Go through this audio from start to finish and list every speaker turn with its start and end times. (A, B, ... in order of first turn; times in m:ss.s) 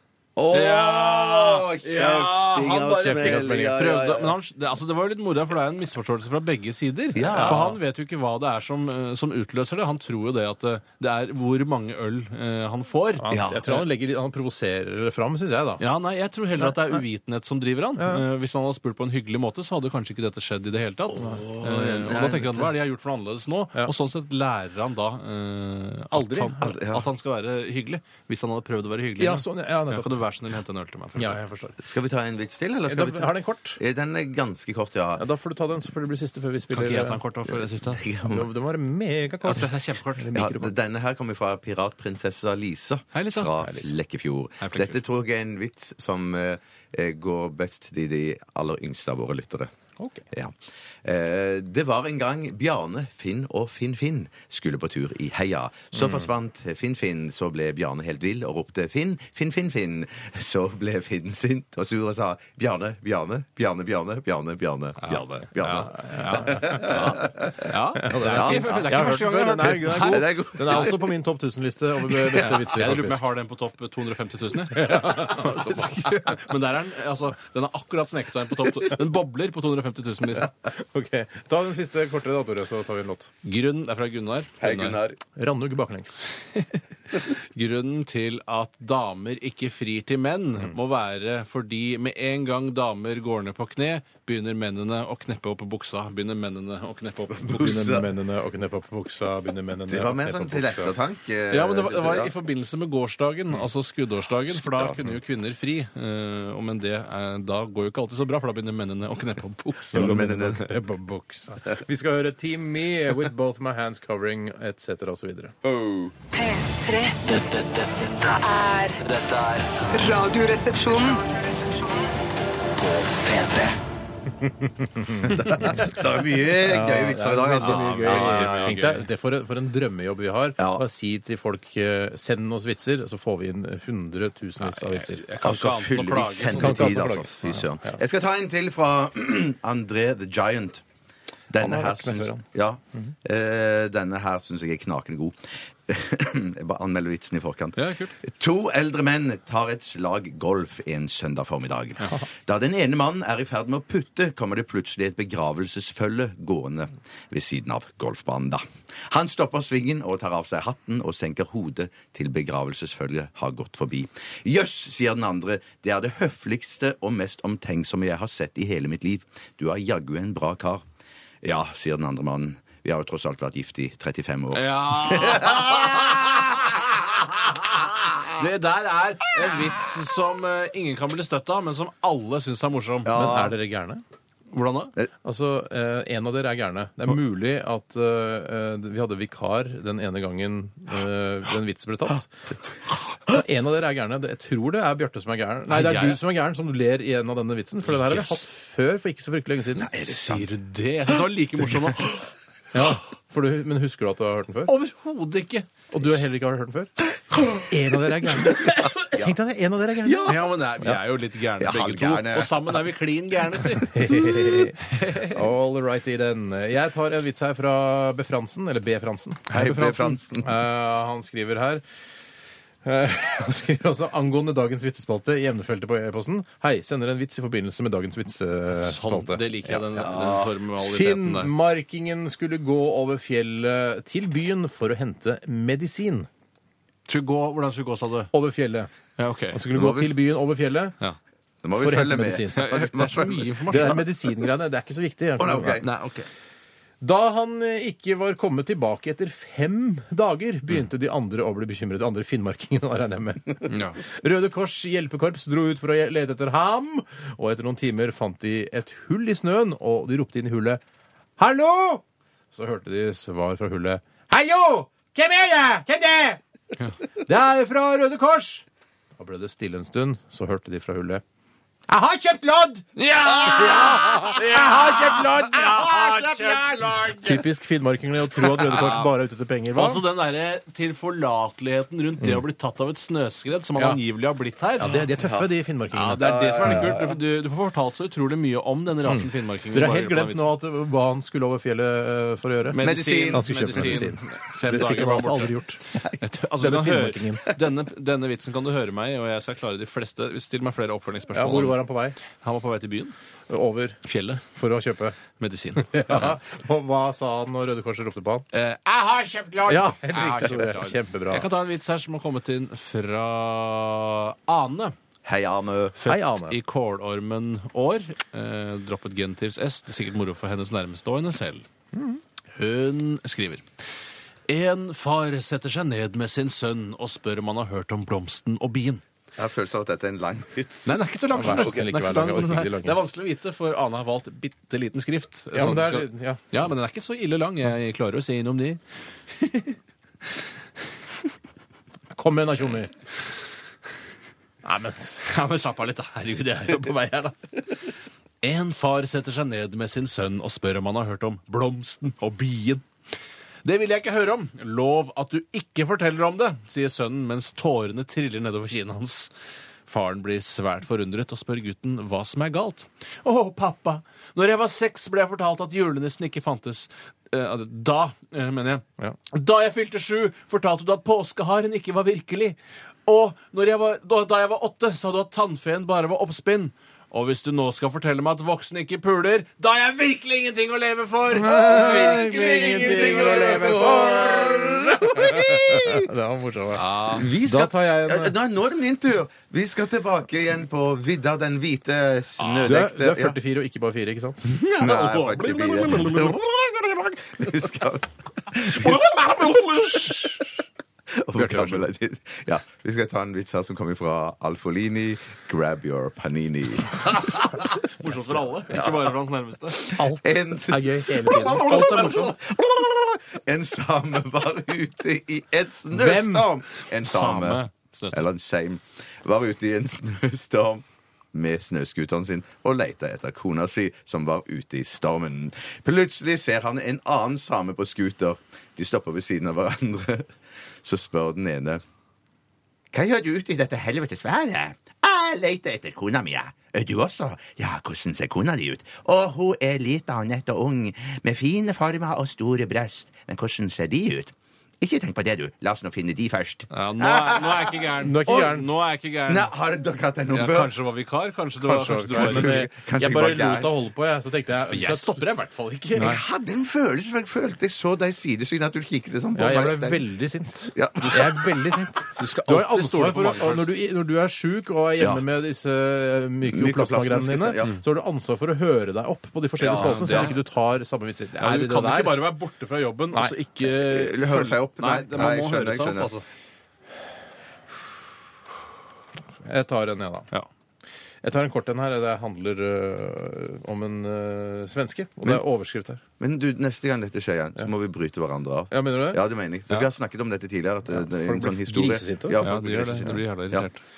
0:00.4-0:04.4 A
0:00.5-0:13.2 B
0:03.0-0:03.8 C
0:07.1-0:07.8 A
0:07.3-0:07.7 C
0:13.2-0:15.8 C
0:13.3-0:13.8 A
0:15.8-0:31.4 B
0:16.6-0:17.0 C
0:18.0-0:18.2 C
0:21.2-0:22.7 A
0:26.1-0:26.6 C
0:26.6-0:27.1 A
0:29.2-0:30.1 C
0:31.2-0:31.8 C
0:31.8-0:35.2 A
0:32.9-0:33.8 C
0:35.2-0:37.2 C
0:36.7-0:38.0 B
0:37.5-0:38.5 A
0:38.2-0:40.7 C
0:39.4-0:40.3 B
0:40.3-0:49.7 A
0:43.1-0:43.7 B
0:43.6-0:43.9 C
0:44.6-0:45.0 B
0:50.0-0:50.2 C
0:50.3-1:11.0 A
1:05.0-1:10.9 B
1:06.1-1:07.0 C
1:08.0-1:13.2 C
1:12.3-1:12.6 A
1:12.3-1:20.5 B
1:14.7-1:16.4 C
1:20.4-1:23.3 C
1:23.4-1:25.0 B
1:24.6-1:25.2 A
1:25.4-1:26.3 C
1:26.6-1:37.7 B
1:37.4-1:38.1 A
1:37.4-1:40.9 C
1:39.9-1:42.3 A
1:41.5-1:50.5 B
1:44.6-1:45.0 A
1:49.9-1:50.6 A
1:49.9-1:55.6 C
1:55.6-1:56.1 A
1:56.3-1:57.2 D
1:57.2-2:00.2 E
1:58.4-1:59.0 D
1:59.9-2:01.2 D
2:02.7-2:03.8 E
2:04.4-2:05.9 C
2:05.2-2:08.8 A
2:06.6-2:15.2 C
2:07.5-2:09.0 B
2:10.6-2:10.8 A
2:14.6-2:17.0 B
2:15.4-2:20.8 A
2:16.5-2:18.0 C
2:21.5-2:50.8 A
2:21.6-2:22.4 C
2:27.8-2:28.1 B
2:51.4-2:56.2 A
2:54.5-2:56.8 B
2:58.3-3:03.1 B
3:03.0-3:03.6 A
3:03.1-3:04.0 C
3:04.5-3:04.9 B
3:05.2-3:12.3 C
3:13.3-3:19.9 C
3:15.7-3:16.2 B
3:17.9-3:18.4 B
3:19.8-3:20.5 A
3:20.0-3:22.1 B
3:22.7-3:24.7 C
3:24.7-3:25.7 B
3:25.9-3:26.9 C
3:27.5-3:31.0 C
3:28.5-3:29.4 A
3:30.0-3:30.4 A
3:30.2-3:34.0 B
3:31.6-3:32.8 A
3:33.8-3:41.8 C
3:34.9-3:35.4 B
3:39.5-3:40.6 A
3:42.8-3:50.1 C
3:48.7-3:51.5 B
3:50.0-3:50.5 A
3:50.8-3:56.3 C
3:57.1-3:58.3 B
3:58.3-3:58.9 C
3:59.2-3:59.6 B
3:59.5-4:01.0 C
3:59.7-4:00.1 A
4:01.6-4:04.0 A
4:01.8-4:02.7 C
4:02.5-4:04.0 B
4:03.7-4:05.8 C
4:05.4-4:05.9 A
4:05.7-4:06.3 B
4:07.0-4:20.8 C
4:13.7-4:14.0 B
4:21.4-4:26.4 C
4:27.2-4:28.6 C
4:29.2-4:31.2 C
4:31.9-4:40.0 C
4:33.0-4:37.4 B
4:38.4-4:39.1 B
4:39.7-4:45.0 B
4:44.8-4:47.0 C
4:45.1-4:45.5 A
4:45.9-4:50.5 B
4:46.2-4:47.0 A
4:49.0-4:55.8 C
4:52.7-4:55.5 B
4:52.8-4:54.1 A
4:54.7-4:55.3 A
4:56.2-5:01.8 B
4:56.6-4:57.5 C
5:01.3-5:02.2 C
5:02.4-5:03.1 B
5:03.5-5:04.0 C
5:04.0-5:04.4 B
5:04.5-5:05.2 C
5:05.4-5:06.3 B
5:05.8-5:08.4 C
5:08.5-5:14.9 B
5:09.6-5:11.4 C
5:15.2-5:16.0 A
5:16.0-5:21.6 B
5:16.0-5:16.6 C
5:21.9-5:22.2 C
5:22.5-5:23.6 B
5:24.5-5:29.0 B
5:29.4-5:31.6 A
5:30.8-5:38.8 B
5:31.3-5:33.0 C
5:35.5-5:36.4 C
5:39.3-5:39.8 B
5:42.1-5:42.9 C
5:44.6-5:45.3 C
5:45.2-5:47.4 B
5:48.4-5:52.8 B
5:53.6-5:59.3 B
5:59.9-6:23.6 B
6:21.3-6:28.3 C
6:21.4-6:26.1 A
6:26.7-6:27.3 B
6:27.1-6:33.4 A
6:32.4-6:32.8 B
6:32.6-6:34.5 C
6:34.5-6:39.5 A
6:34.5-6:36.4 B
6:38.5-6:40.5 B
6:41.1-6:47.1 A
6:41.3-6:41.8 B
6:47.0-6:49.9 B
6:48.7-6:49.2 A
6:49.8-7:10.3 A
6:49.9-6:52.3 C
6:51.5-6:52.0 B
6:55.9-6:56.5 C
6:57.0-6:58.2 B
7:10.8-7:11.8 A
7:12.9-7:28.4 A
7:26.7-7:29.5 B
7:28.0-7:28.6 C
7:29.3-7:30.7 A
7:30.3-7:32.6 B
7:31.6-7:36.2 C
7:32.1-7:33.7 A
7:34.7-7:36.2 B
7:35.9-7:40.0 A
7:39.3-7:52.2 C
7:40.7-7:41.4 A
7:41.0-7:41.3 B
7:42.2-7:43.7 B
7:46.4-7:47.8 A
7:49.6-7:50.3 A
7:49.7-7:50.4 B
7:51.4-7:56.2 B
7:53.6-7:56.1 A
7:59.4-8:00.3 C
8:01.2-8:06.0 C
8:06.2-8:13.7 A
8:08.7-8:09.2 C
8:10.9-8:12.5 C
8:12.4-8:13.8 B